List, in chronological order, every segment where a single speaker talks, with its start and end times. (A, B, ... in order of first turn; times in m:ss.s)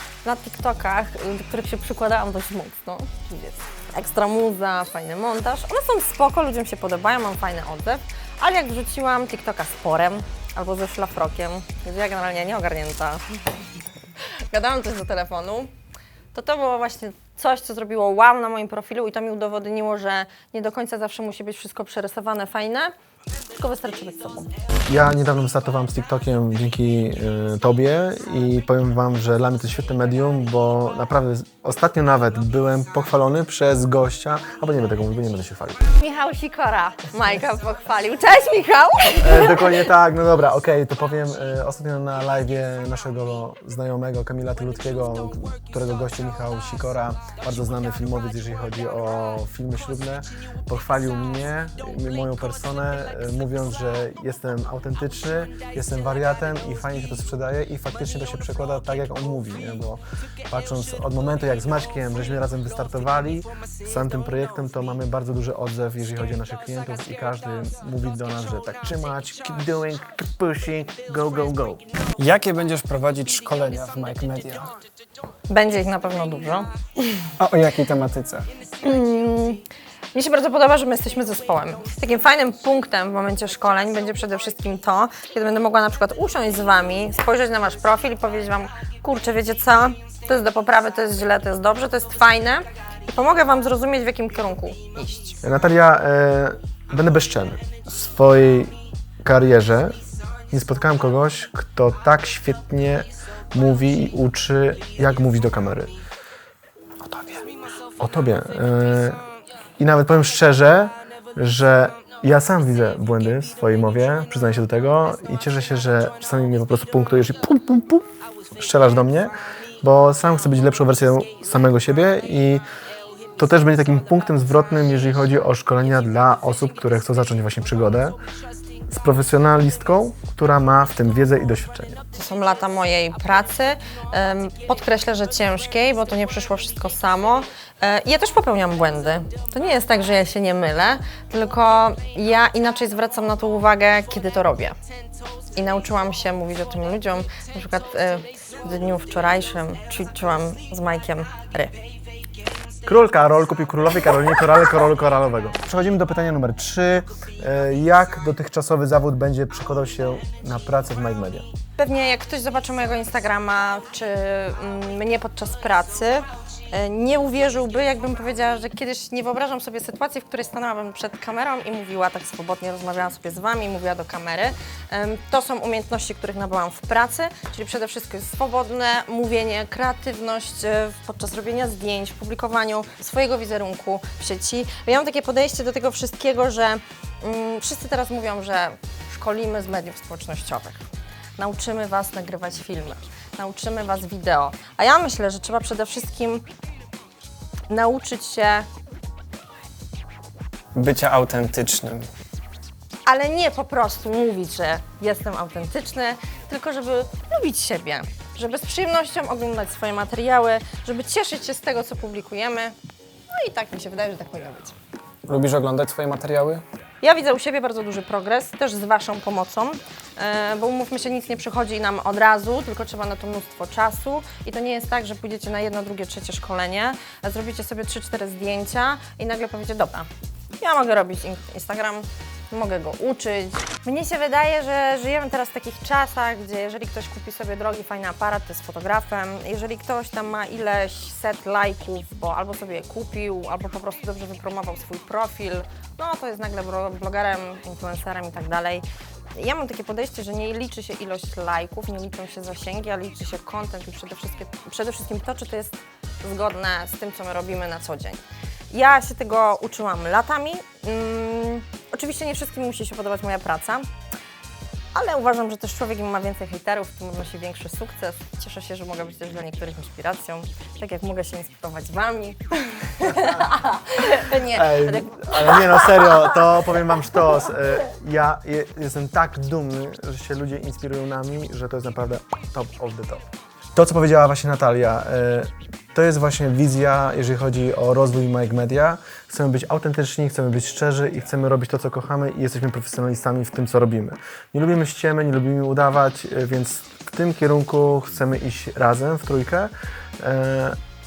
0:00.2-0:13.2 A
0:14.2-0:15.7 A
0:16.3-0:22.9 A
0:23.6-0:24.5 A
0:24.9-0:35.8 B
0:36.0-0:39.9 A
0:39.2-1:11.8 B
1:12.2-1:14.7 C
1:15.5-1:16.7 A
1:17.4-1:18.5 C
1:18.8-1:19.6 A
1:20.1-1:35.4 A
1:35.4-1:39.9 B
1:40.5-1:45.9 B
1:47.0-1:47.4 C
1:48.0-1:49.2 B
1:49.8-1:58.0 B
1:58.6-2:02.6 B
2:03.4-2:08.2 B
2:08.9-2:12.0 B
2:12.1-2:24.7 A
2:25.6-2:31.8 A
2:32.8-2:41.5 B
2:41.8-3:10.8 A
3:11.4-3:16.4 A
3:17.7-3:18.7 A
3:20.7-3:22.1 C
3:23.0-3:32.7 A
3:33.3-3:34.8 A
3:35.3-3:36.6 C
3:37.0-3:50.1 A
3:50.6-4:23.9 A
4:24.9-4:36.4 A
4:34.5-5:00.8 B